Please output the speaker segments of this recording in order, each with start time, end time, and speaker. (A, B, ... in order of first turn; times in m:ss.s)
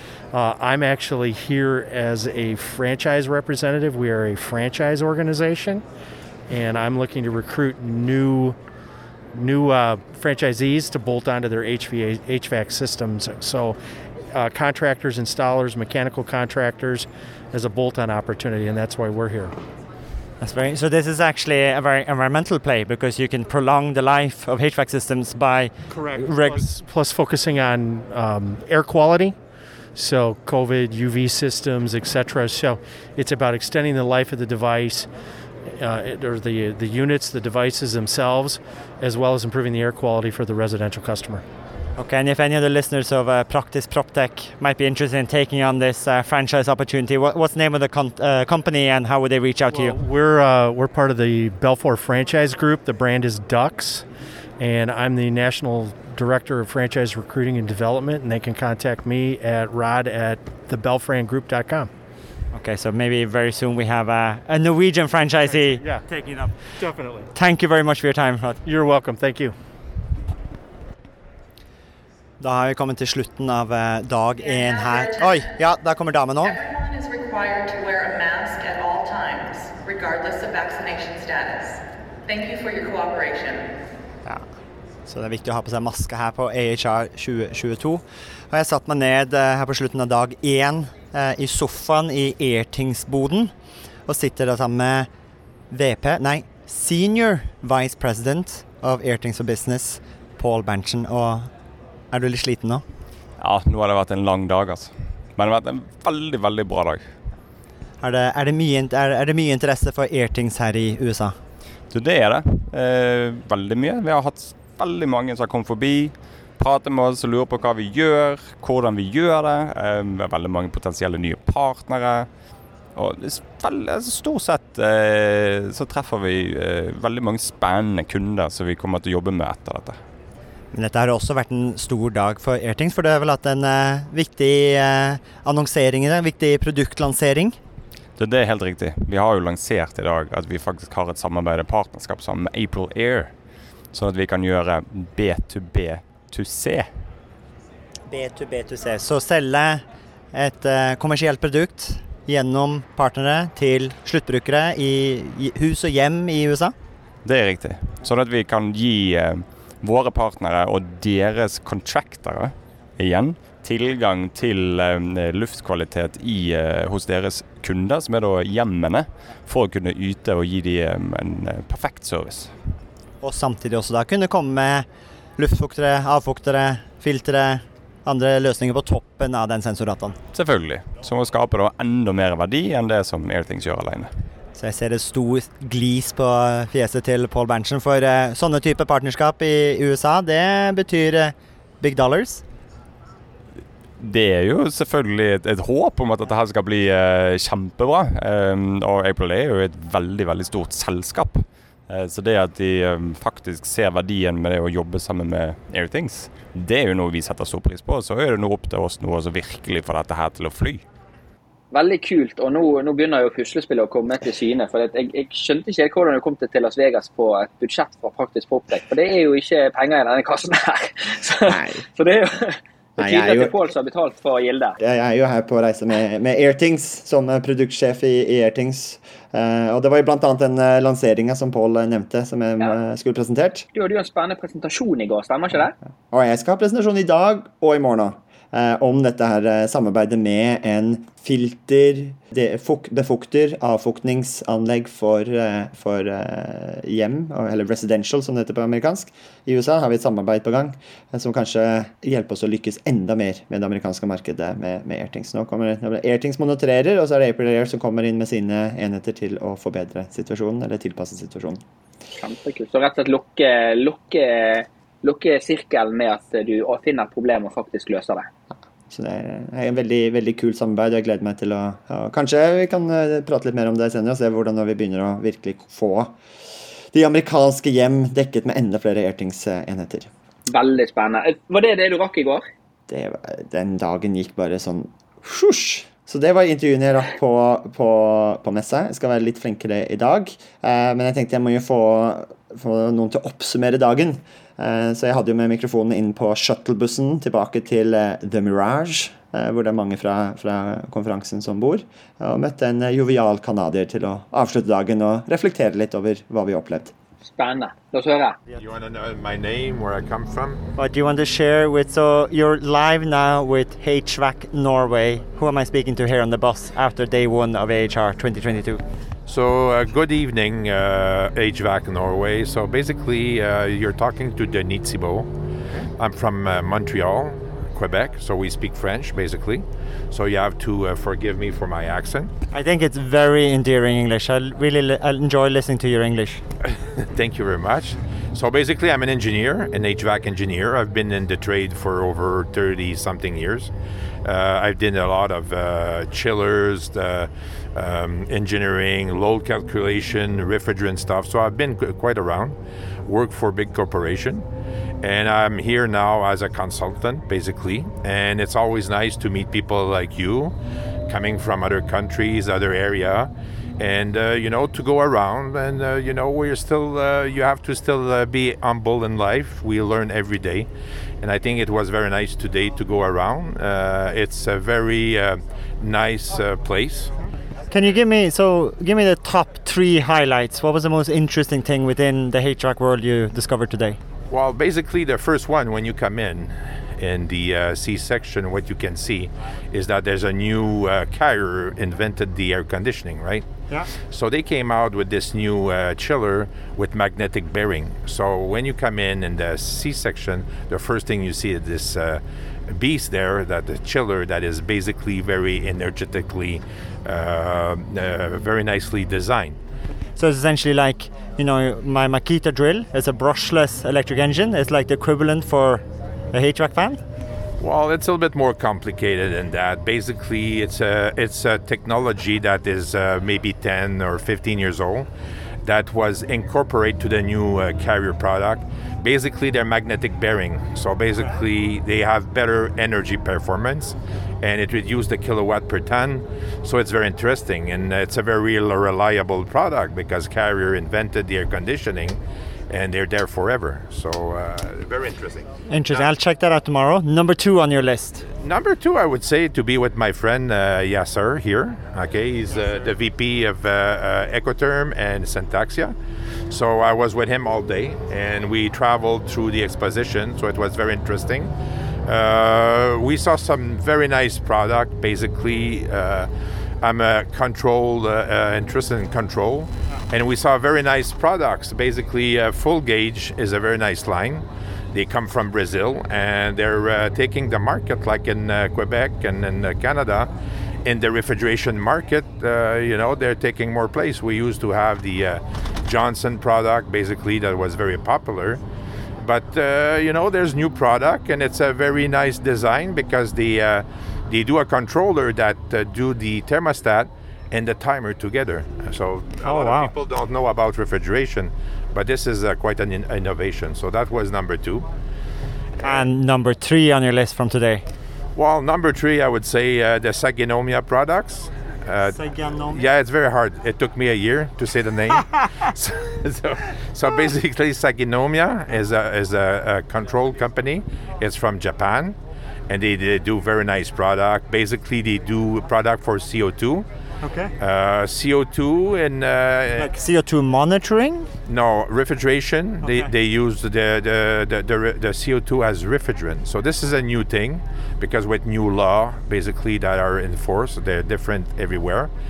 0:00.3-0:05.8 A
0:06.5-0:08.6 A
0:09.3-0:13.8 A
0:14.3-0:19.5 A
0:20.4-0:26.6 B
0:25.9-0:29.4 A
0:29.9-0:35.1 A
0:35.6-0:41.4 A
0:42.0-0:50.0 B
0:49.7-0:54.0 A
0:54.6-1:01.9 A
1:02.5-1:06.8 B
1:05.4-1:06.0 A
1:06.8-1:07.3 A
1:07.3-1:08.6 B
1:08.6-1:09.5 A
1:12.4-1:16.6 B
1:14.4-1:15.5 C
1:16.4-1:23.7 C
1:25.0-1:33.5 B
1:34.1-1:35.1 B
1:35.7-1:41.5 B
1:42.1-1:42.8 B
1:43.4-1:47.1 D
1:48.0-1:51.4 B
1:51.9-2:02.3 D
2:02.9-2:10.0 D
2:10.7-2:17.6 B
2:18.2-2:23.3 D
2:23.9-2:26.9 D
2:28.1-2:29.8 B
2:30.3-2:36.7 B
2:37.2-2:52.5 D
2:53.2-2:54.8 B
2:55.4-3:00.2 B
3:00.3-3:04.1 D
3:04.5-3:12.4 B
3:14.0-3:30.8 D
3:31.7-3:44.8 E
3:41.5-3:41.8 F
3:43.0-3:43.6 F
3:44.8-3:53.7 F
3:53.7-3:55.7 E
3:56.1-4:21.6 F
4:22.2-4:28.3 E
4:28.9-4:36.2 F
4:36.9-4:40.1 F
4:40.5-4:42.4 E
4:42.9-5:06.9 F
5:07.2-5:08.4 E
5:08.6-5:10.6 G
5:10.8-5:18.8 B
5:19.3-5:25.3 G
5:26.0-5:32.3 G
5:32.5-5:36.4 B
5:36.7-5:43.7 G
5:44.2-5:54.4 G
5:55.0-6:00.5 G
6:01.1-6:10.7 G
6:11.2-6:17.1 G
6:17.7-6:24.0 B
6:24.3-6:33.4 G
6:34.0-6:49.6 G
6:50.2-6:57.0 B
6:57.6-7:05.1 G
7:05.6-7:22.2 G
7:22.7-7:26.1 G
7:25.7-7:28.2 B
7:28.4-7:35.9 G
7:36.5-7:41.5 G
7:42.0-7:46.3 G
7:46.8-8:00.3 G
8:00.8-8:08.6 G
8:09.2-8:24.9 G
8:19.4-8:19.9 B
8:25.8-8:27.8 B
8:28.4-8:32.2 G
8:32.2-8:32.8 B
8:32.7-8:42.2 G
8:35.1-8:35.5 B
8:42.7-8:46.8 G
8:47.2-8:47.5 B
8:47.6-8:49.9 G
8:49.8-8:51.3 B
8:51.5-9:02.1 G
8:52.8-8:53.1 B